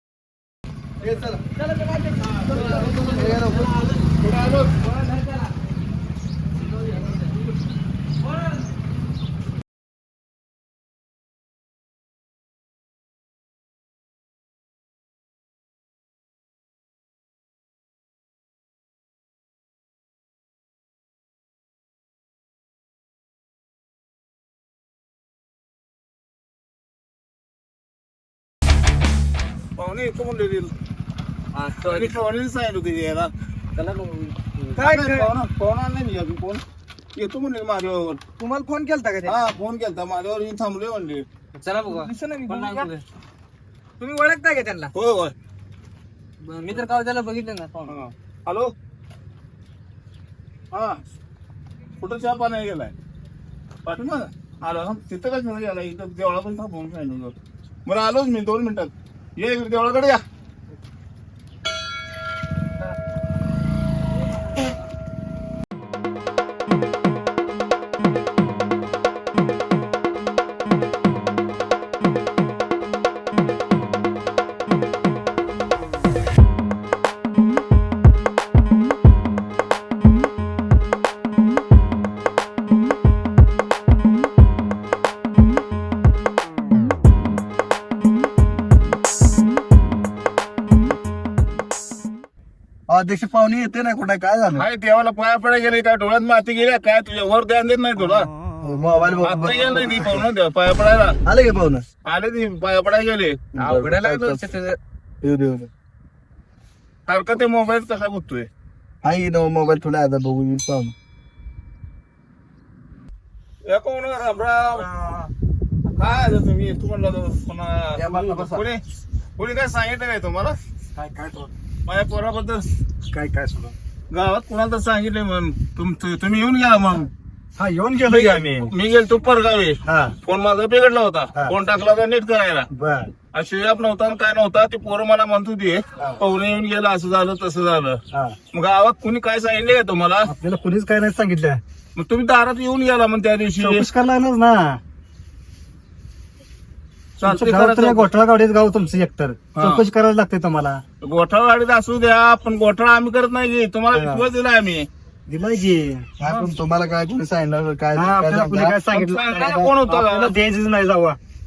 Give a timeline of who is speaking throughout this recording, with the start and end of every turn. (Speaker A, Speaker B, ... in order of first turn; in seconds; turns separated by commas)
Speaker A: 1.0-1.4, Speaker B: 1.6-3.9, Speaker C: 2.2-4.8, Speaker A: 2.5-3.7, Speaker B: 4.8-5.5, Speaker B: 6.7-7.3, Speaker C: 29.8-30.7, Speaker D: 31.5-32.2, Speaker C: 31.8-33.3, Speaker D: 33.8-34.7, Speaker C: 34.8-36.6, Speaker B: 34.8-35.3, Speaker C: 37.2-38.2, Speaker B: 38.4-39.4, Speaker C: 39.3-41.3, Speaker D: 41.5-43.0, Speaker B: 41.9-42.9, Speaker B: 44.0-44.9, Speaker C: 45.0-45.4, Speaker D: 46.4-48.0, Speaker C: 47.9-48.7, Speaker C: 50.7-51.0, Speaker C: 52.0-52.9, Speaker C: 53.9-57.4, Speaker C: 57.9-60.2, Speaker A: 92.9-94.7, Speaker C: 94.6-98.3, Speaker A: 98.6-100.2, Speaker C: 99.2-101.2, Speaker A: 101.2-101.8, Speaker C: 102.0-103.5, Speaker A: 103.5-104.5, Speaker D: 103.5-104.8, Speaker A: 105.2-105.7, Speaker C: 107.1-108.5, Speaker A: 109.0-111.0, Speaker C: 113.7-114.9, Speaker C: 116.0-118.8, Speaker A: 118.0-118.7, Speaker C: 119.4-120.6, Speaker E: 121.0-121.5, Speaker C: 121.9-122.7, Speaker E: 123.1-123.8, Speaker C: 124.1-127.1, Speaker E: 127.6-128.7, Speaker C: 128.0-132.7, Speaker E: 129.8-130.2, Speaker E: 132.7-133.1, Speaker C: 133.3-138.0, Speaker E: 138.1-138.4, Speaker C: 138.5-140.3, Speaker E: 140.2-141.6, Speaker C: 142.0-143.9, Speaker E: 143.6-144.8, Speaker C: 147.2-148.1, Speaker E: 147.2-150.8, Speaker C: 149.5-149.8, Speaker C: 151.0-154.9, Speaker A: 153.9-154.3, Speaker E: 155.3-156.1, Speaker A: 156.2-158.8, Speaker B: 156.2-156.5, Speaker E: 157.9-161.2, Speaker C: 158.9-160.3